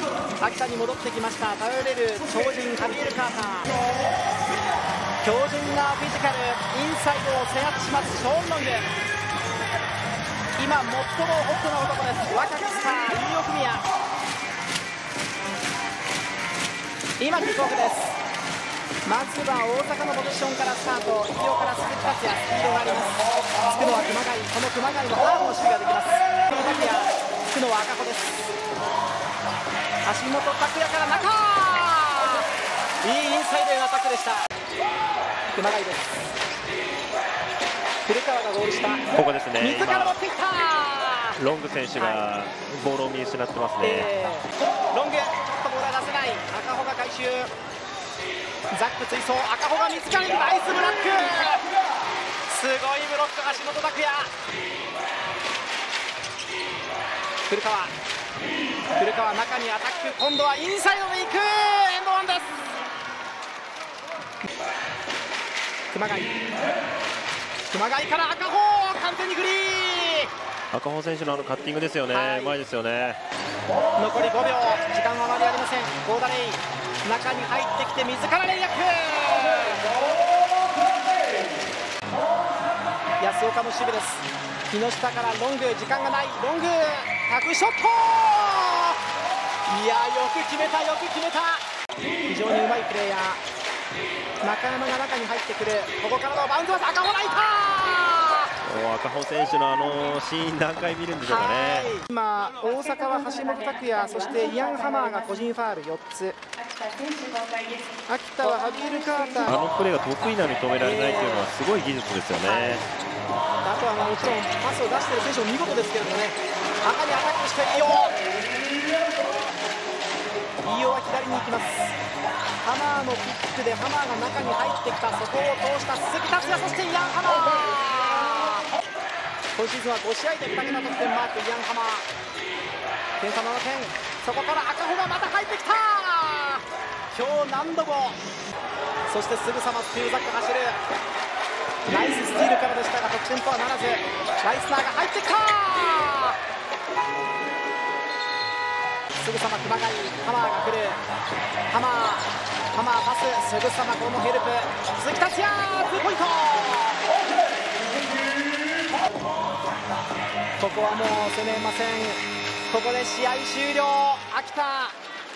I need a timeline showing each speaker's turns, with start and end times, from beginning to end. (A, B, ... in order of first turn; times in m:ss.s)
0:00.4-0:03.7 A
0:05.2-0:08.9 A
0:10.6-0:13.8 A
0:17.2-0:18.2 A
0:19.1-0:28.5 A
0:30.1-0:32.5 A
0:33.0-0:34.4 A
0:35.6-0:36.3 A
0:38.1-0:39.1 A
0:39.1-0:40.2 B
0:39.6-0:41.4 A
0:41.4-0:44.1 B
0:42.0-0:42.3 A
0:43.8-0:47.5 A
0:48.7-0:51.6 A
0:52.5-0:54.3 A
0:57.5-0:57.9 A
0:59.0-1:02.6 A
1:05.9-1:06.3 A
1:07.7-1:10.3 A
1:10.7-1:13.2 B
1:12.1-1:12.6 A
1:14.0-1:19.8 A
1:23.2-1:29.0 A
1:29.7-1:31.6 A
1:32.3-1:33.4 A
1:34.4-1:38.5 A
1:38.6-1:41.9 B
1:41.2-1:46.4 A
1:48.1-1:49.6 A
1:49.4-1:52.8 B
1:50.8-1:51.5 A
1:52.4-1:52.9 A
1:53.6-1:58.2 A
2:00.6-2:02.0 A
2:02.6-2:08.7 A
2:09.6-2:12.0 A
2:13.2-2:18.2 A
2:19.1-2:20.8 A
2:21.9-2:26.4 A
2:29.2-2:31.0 A
2:31.7-2:37.1 A
2:40.6-2:45.0 A